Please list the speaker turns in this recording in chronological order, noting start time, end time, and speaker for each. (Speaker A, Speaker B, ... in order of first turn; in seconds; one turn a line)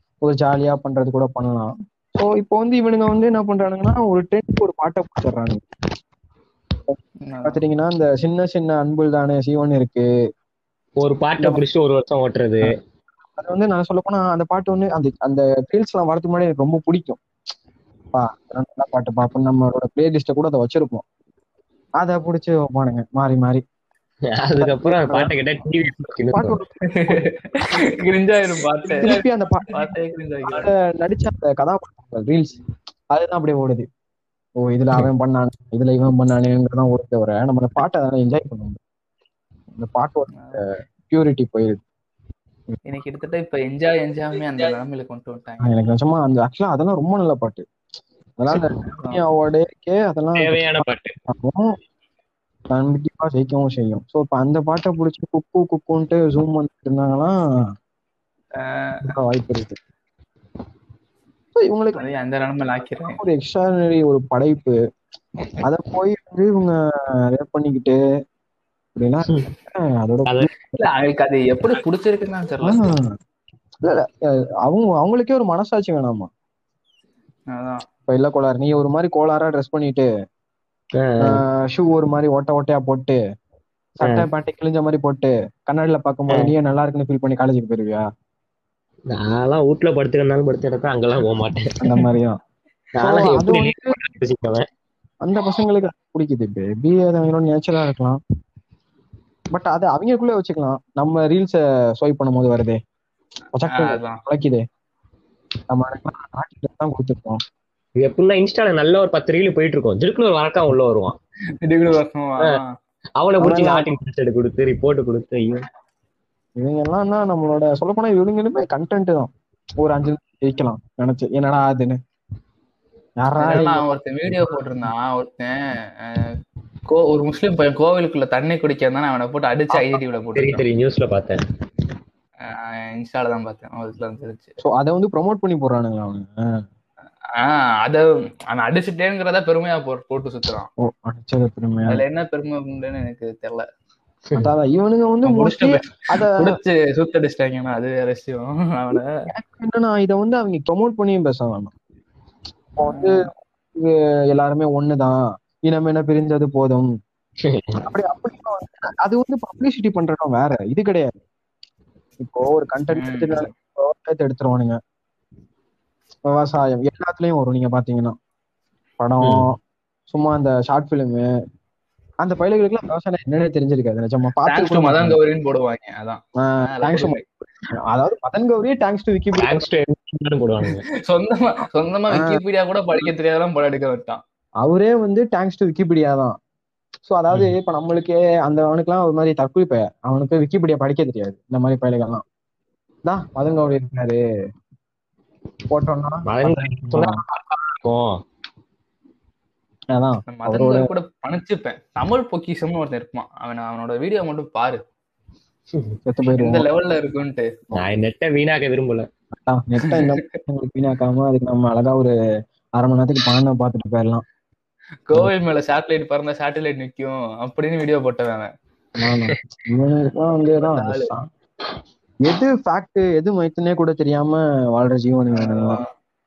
Speaker A: 0.2-5.6
Speaker A: 6.9-10.1
Speaker B: 7.2-7.6
Speaker C: 11.0-12.8
Speaker A: 13.4-17.2
Speaker A: 18.1-21.0
Speaker A: 22.0-23.6
Speaker C: 24.3-26.6
Speaker A: 24.6-25.4
Speaker A: 26.3-27.3
Speaker B: 26.9-30.7
Speaker A: 28.9-29.9
Speaker A: 30.5-32.6
Speaker A: 33.1-33.9
Speaker A: 34.6-38.8
Speaker A: 39.8-41.8
Speaker B: 40.3-40.6
Speaker B: 42.9-45.7
Speaker A: 45.6-47.6
Speaker A: 48.4-51.7
Speaker B: 48.9-49.2
Speaker C: 50.4-51.1
Speaker A: 52.7-57.3
Speaker B: 58.6-58.9
Speaker A: 59.1-59.8
Speaker A: 61.5-62.0
Speaker B: 62.0-63.2
Speaker A: 63.0-64.8
Speaker A: 65.6-66.8
Speaker A: 67.3-68.0
Speaker A: 69.0-70.8
Speaker B: 70.8-72.9
Speaker A: 72.6-73.0
Speaker A: 73.8-76.3
Speaker B: 77.5-77.8
Speaker A: 78.1-80.1
Speaker C: 81.0-81.4
Speaker A: 81.2-83.2
Speaker A: 84.0-88.0
Speaker C: 84.0-84.3
Speaker C: 89.1-92.0
Speaker A: 91.8-92.4
Speaker C: 93.0-94.7
Speaker A: 93.0-94.0
Speaker A: 95.2-98.2
Speaker A: 99.5-102.8
Speaker A: 103.5-104.6
Speaker B: 103.7-104.2
Speaker A: 105.7-107.4
Speaker C: 108.0-111.2
Speaker B: 111.6-112.7
Speaker C: 113.2-115.6
Speaker A: 113.4-113.9
Speaker A: 116.6-119.3
Speaker A: 119.8-122.0
Speaker A: 123.2-123.8
Speaker B: 123.4-126.3
Speaker B: 126.9-130.6
Speaker C: 129.8-131.4
Speaker B: 132.4-134.6
Speaker A: 134.6-136.3
Speaker B: 137.4-140.7
Speaker A: 140.8-142.0
Speaker B: 141.9-143.7
Speaker A: 144.4-146.5
Speaker B: 145.3-149.1
Speaker A: 149.3-151.7
Speaker A: 152.8-153.2
Speaker B: 152.9-153.2
Speaker A: 153.8-156.9
Speaker C: 157.4-157.8
Speaker A: 157.9-161.1
Speaker A: 162.2-164.8
Speaker B: 162.9-163.5
Speaker A: 166.3-168.2
Speaker A: 169.0-169.6
Speaker A: 170.1-171.3
Speaker A: 172.2-175.2
Speaker B: 174.5-177.2
Speaker A: 176.4-177.2
Speaker A: 177.9-179.7
Speaker C: 179.4-180.8
Speaker B: 181.1-184.2
Speaker A: 182.1-182.4
Speaker A: 184.6-186.3
Speaker A: 187.1-192.2
Speaker A: 193.1-194.2
Speaker A: 195.7-197.2
Speaker C: 196.3-198.1
Speaker A: 199.9-200.8
Speaker B: 200.3-204.8
Speaker A: 206.1-206.7
Speaker B: 206.3-207.5
Speaker C: 207.7-209.1
Speaker A: 209.4-212.1
Speaker A: 212.8-214.2
Speaker B: 215.1-218.5
Speaker A: 219.0-221.3
Speaker B: 220.4-221.1
Speaker A: 222.2-225.8
Speaker B: 225.4-225.8